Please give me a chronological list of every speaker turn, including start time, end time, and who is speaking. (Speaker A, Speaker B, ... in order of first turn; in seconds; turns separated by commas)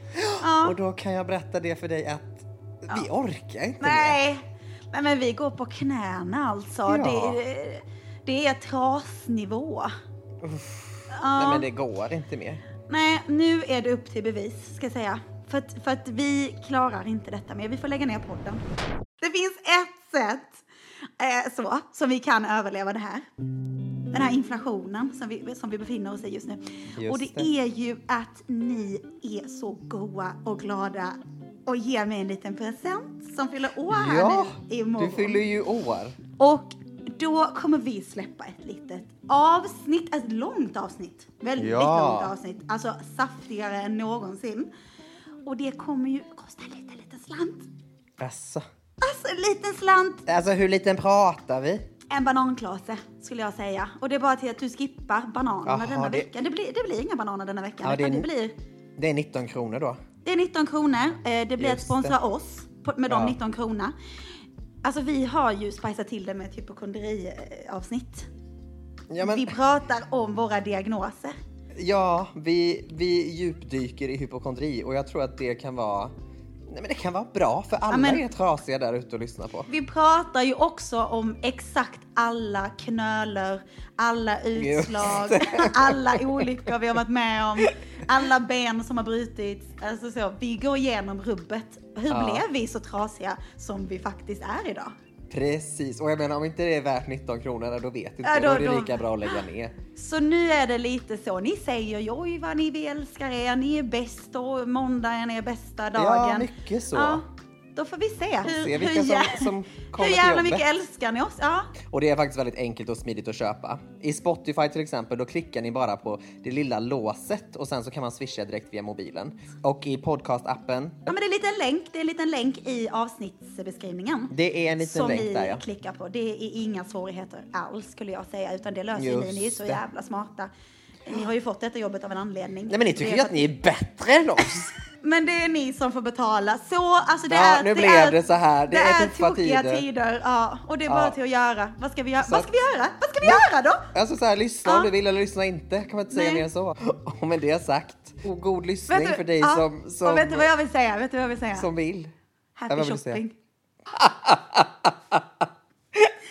Speaker A: 0.1-4.2, Speaker B: 0.4-0.8, Speaker B: 3.8-9.9, Speaker A: 6.9-7.4, Speaker A: 10.4-12.6, Speaker B: 11.1-11.7, Speaker B: 12.9-18.6, Speaker B: 19.2-20.6, Speaker B: 21.2-23.2, Speaker B: 24.1-35.4, Speaker A: 27.0-27.5, Speaker A: 33.9-36.2, Speaker B: 36.4-44.7, Speaker A: 41.6-42.3, Speaker B: 45.4-47.7, Speaker A: 48.2-48.6, Speaker B: 49.0-50.2, Speaker A: 50.2-51.8, Speaker B: 52.1-58.5, Speaker A: 55.6-56.3, Speaker A: 57.8-58.3, Speaker A: 59.0-60.0, Speaker B: 60.2-63.9, Speaker A: 61.6-62.1, Speaker A: 63.1-63.4, Speaker B: 64.8-68.3, Speaker A: 69.1-69.5, Speaker B: 69.2-71.3, Speaker A: 71.7-76.1, Speaker A: 76.7-79.7, Speaker B: 77.9-78.2, Speaker B: 79.7-94.9, Speaker A: 84.5-86.5, Speaker A: 92.1-92.4, Speaker A: 95.3-99.7, Speaker B: 98.2-99.0, Speaker B: 100.0-107.2, Speaker A: 106.0-107.2, Speaker B: 107.8-111.7, Speaker A: 108.4-110.7, Speaker A: 111.9-121.1, Speaker B: 121.1-130.5, Speaker A: 124.3-125.6, Speaker A: 128.9-129.8, Speaker B: 131.0-133.5, Speaker A: 132.7-134.7, Speaker B: 135.0-143.9, Speaker A: 137.3-139.8, Speaker A: 140.9-141.2, Speaker A: 142.2-142.5, Speaker A: 143.2-150.5, Speaker B: 144.6-144.9, Speaker B: 146.1-146.4, Speaker B: 148.9-151.7, Speaker A: 151.5-152.1, Speaker B: 152.6-153.3, Speaker A: 152.7-153.2, Speaker A: 153.9-155.2